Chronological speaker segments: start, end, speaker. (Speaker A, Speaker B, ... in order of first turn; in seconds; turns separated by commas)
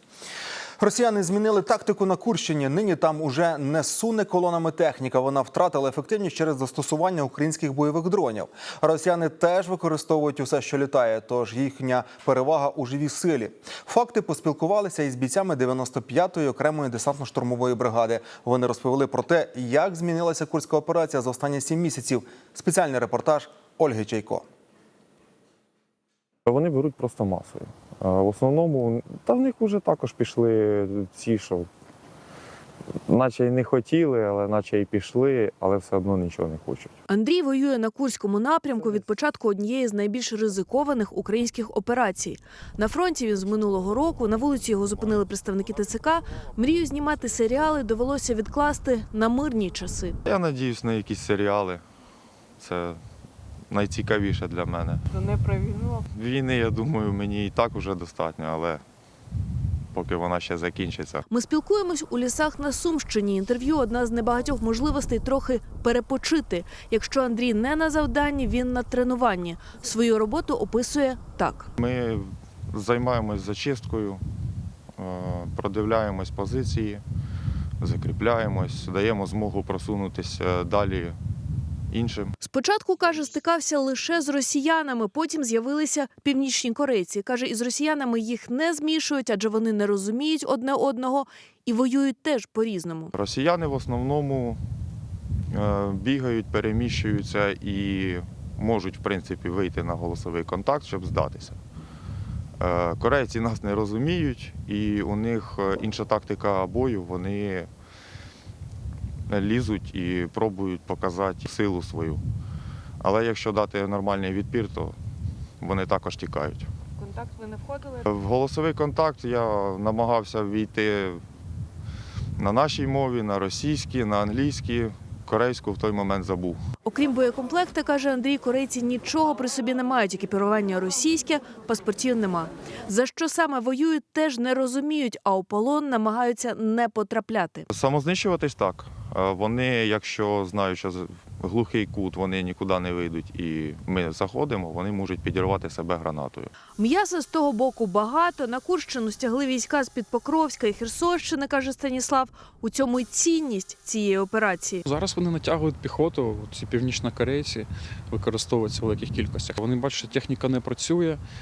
Speaker A: 0.8-24.4, Speaker B: 26.5-31.7, Speaker B: 33.1-36.9, Speaker C: 37.1-50.2, Speaker B: 50.2-51.8, Speaker B: 52.6-53.0, Speaker B: 53.7-55.0, Speaker B: 56.1-58.8, Speaker B: 59.9-61.2, Speaker C: 61.3-71.7, Speaker B: 71.8-74.2, Speaker B: 75.0-77.0, Speaker B: 77.8-81.2, Speaker B: 81.9-82.3, Speaker C: 82.4-93.1, Speaker B: 93.1-94.6, Speaker B: 95.5-101.6, Speaker B: 102.6-107.7, Speaker B: 109.3-112.2, Speaker B: 113.0-115.0, Speaker B: 115.6-116.7, Speaker B: 118.0-121.2, Speaker B: 122.4-126.6, Speaker C: 126.8-137.7, Speaker B: 137.7-146.5, Speaker C: 146.8-154.8, Speaker D: 154.9-161.2